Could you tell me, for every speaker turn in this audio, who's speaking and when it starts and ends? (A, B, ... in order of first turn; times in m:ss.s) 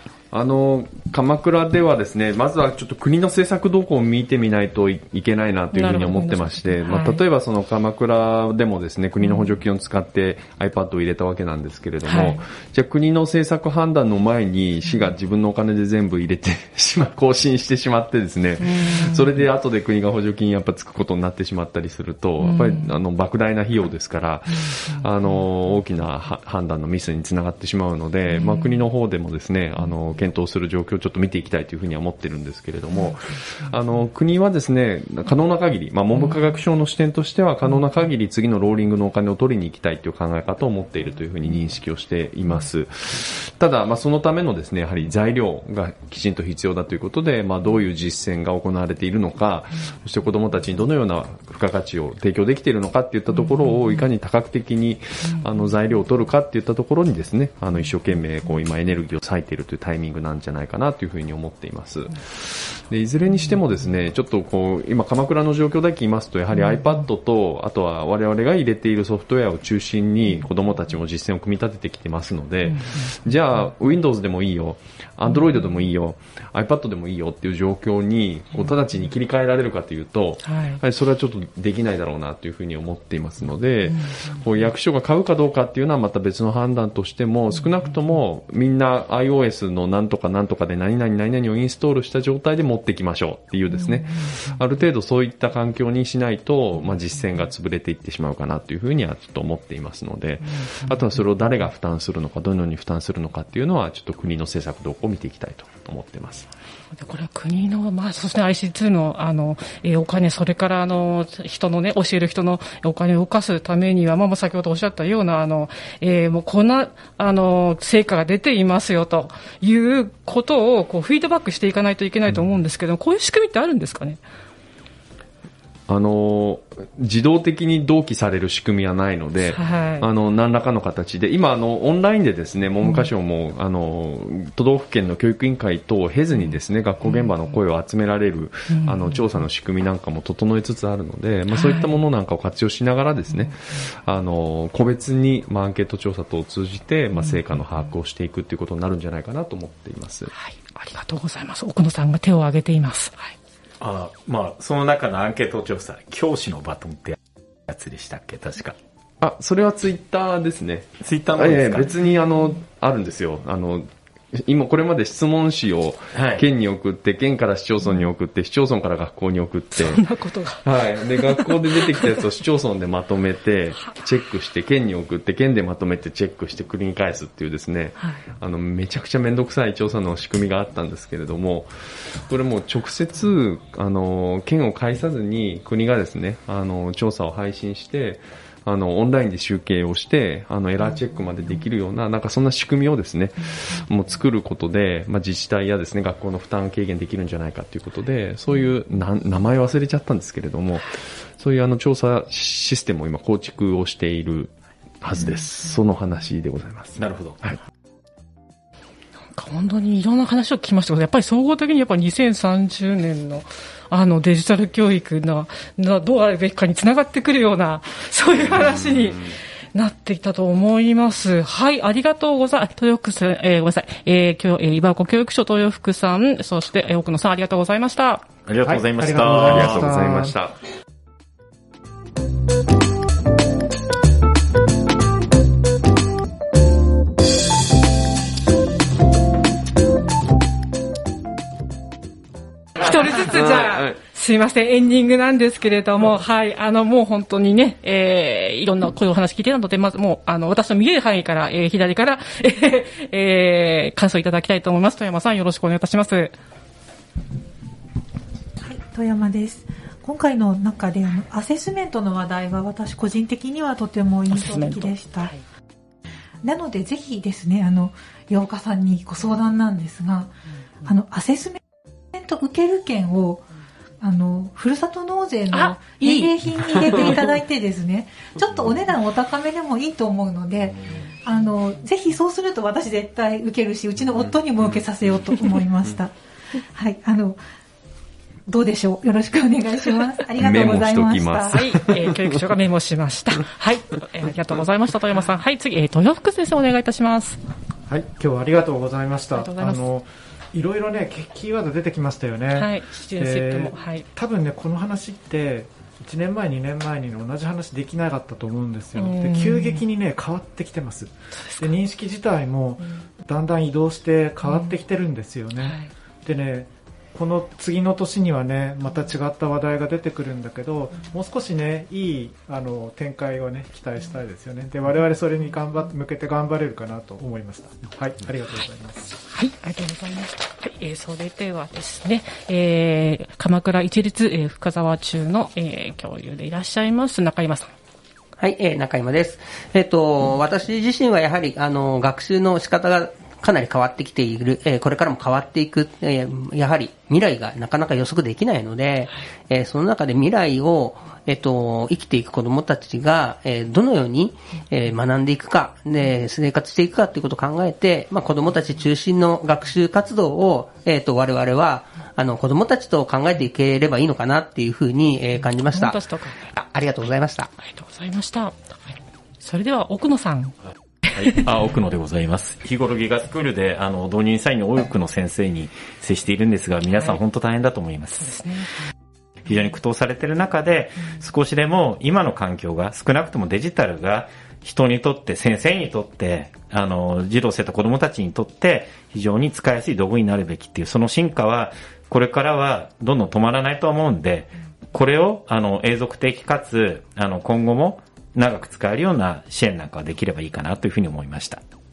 0:00.3-1:46.5 A
0:05.7-0:07.2 B
0:09.2-0:09.5 B
0:12.0-0:12.4 B
0:18.6-0:19.4 B
0:22.4-0:23.0 B
0:28.3-0:28.8 B
0:53.4-0:53.7 B
1:06.5-1:07.0 B
1:12.6-1:13.2 B
1:20.4-1:20.8 B
1:23.9-1:24.4 B
1:33.7-1:34.5 B
1:40.5-1:41.0 B
1:46.9-2:04.2 B
2:05.9-2:30.3 A
2:09.5-2:10.1 B
2:12.8-2:13.1 B
2:18.7-2:19.2 B
2:21.5-2:22.0 B
2:27.2-2:27.4 B
2:30.3-2:33.3 B
2:33.8-2:37.2 C
2:37.7-2:38.8 C
2:39.2-2:50.1 A
2:41.0-2:41.9 C
2:46.1-2:46.4 C
2:49.8-2:52.2 B
2:50.6-3:27.6 A
3:27.0-3:27.4 C
3:29.3-3:48.2 B
3:38.5-3:39.3 A
3:48.5-3:49.8 C
3:48.6-3:50.4 D
3:49.2-3:50.6 A
4:02.8-4:16.3 B
4:03.2-4:04.0 A
4:18.6-4:25.3 E
4:24.3-4:25.4 B
4:26.4-4:31.6 E
4:32.1-4:33.5 E
4:34.0-4:46.1 E
4:35.5-4:37.2 B
4:46.7-4:47.4 E
4:48.5-4:51.7 E
4:50.4-4:52.4 A
4:51.5-4:57.4 B
4:57.9-5:29.1 D
4:59.3-4:59.8 B
5:02.5-5:04.1 B
5:09.0-5:09.8 B
5:11.3-5:11.7 B
5:14.4-5:14.7 B
5:15.6-5:15.9 B
5:29.2-5:37.7 B
5:38.4-6:07.5 F
6:05.7-6:06.5 B
6:07.6-6:10.6 B
6:11.2-6:18.4 C
6:16.9-6:17.2 B
6:18.1-6:18.9 B
6:19.5-6:41.6 C